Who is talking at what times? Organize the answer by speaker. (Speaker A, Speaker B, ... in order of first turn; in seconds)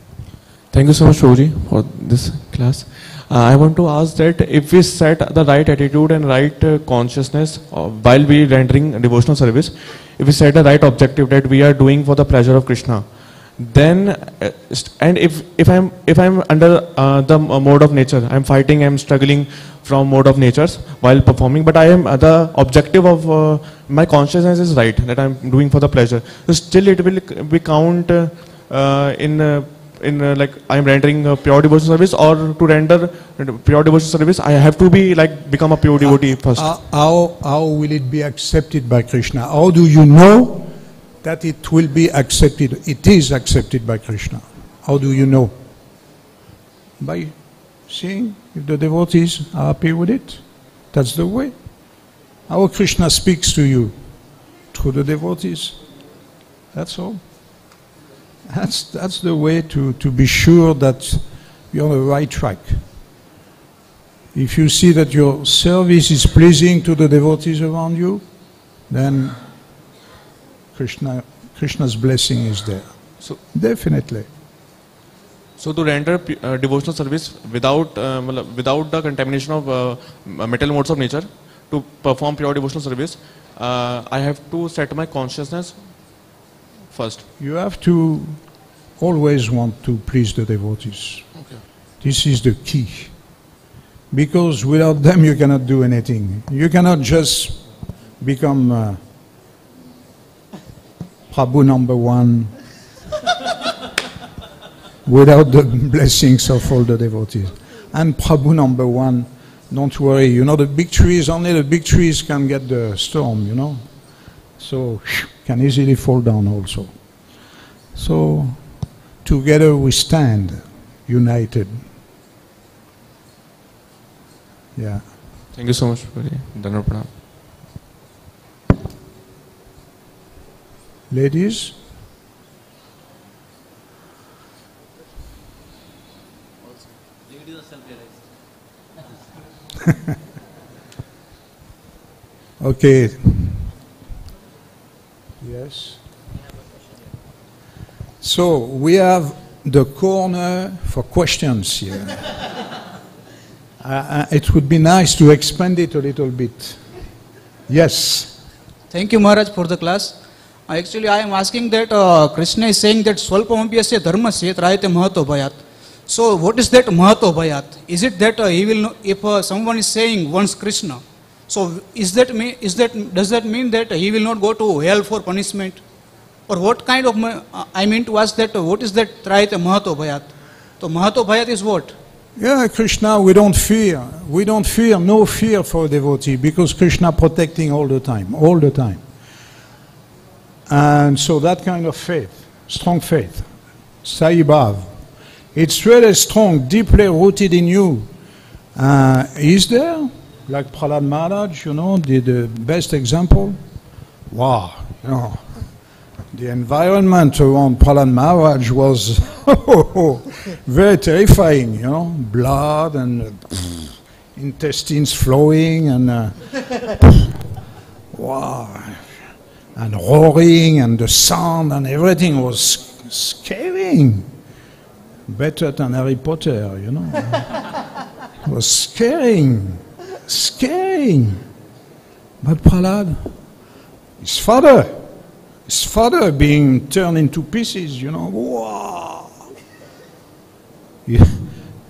Speaker A: 0.7-36.7, 75.6-86.4, 86.9-87.2, 91.3-91.6, 125.5-127.1
Speaker B: 36.0-45.6, 47.0-51.6, 52.5-54.0, 54.7-55.8, 56.7-57.2, 58.5-62.8, 64.3-68.2, 68.9-69.4, 70.7-74.3, 87.4-91.4, 92.0-93.2, 94.1-99.0, 101.3-102.5, 105.0-113.9, 114.5-117.3, 118.0-121.9, 124.8-125.1, 131.1-131.8, 142.6-143.7, 145.4-146.0, 148.2-152.3, 153.8-156.8, 157.7-158.4, 182.4-189.0, 190.7-193.5, 194.0-195.0, 195.5-198.1, 198.8-203.6, 204.3-205.7, 206.3-217.3, 218.1-219.1, 219.8-224.3, 225.3-227.5, 228.4-231.4, 232.4-233.4, 234.2-235.1, 235.7-239.3, 241.1-241.5
Speaker C: 158.9-160.2, 160.7-175.8, 176.5-181.9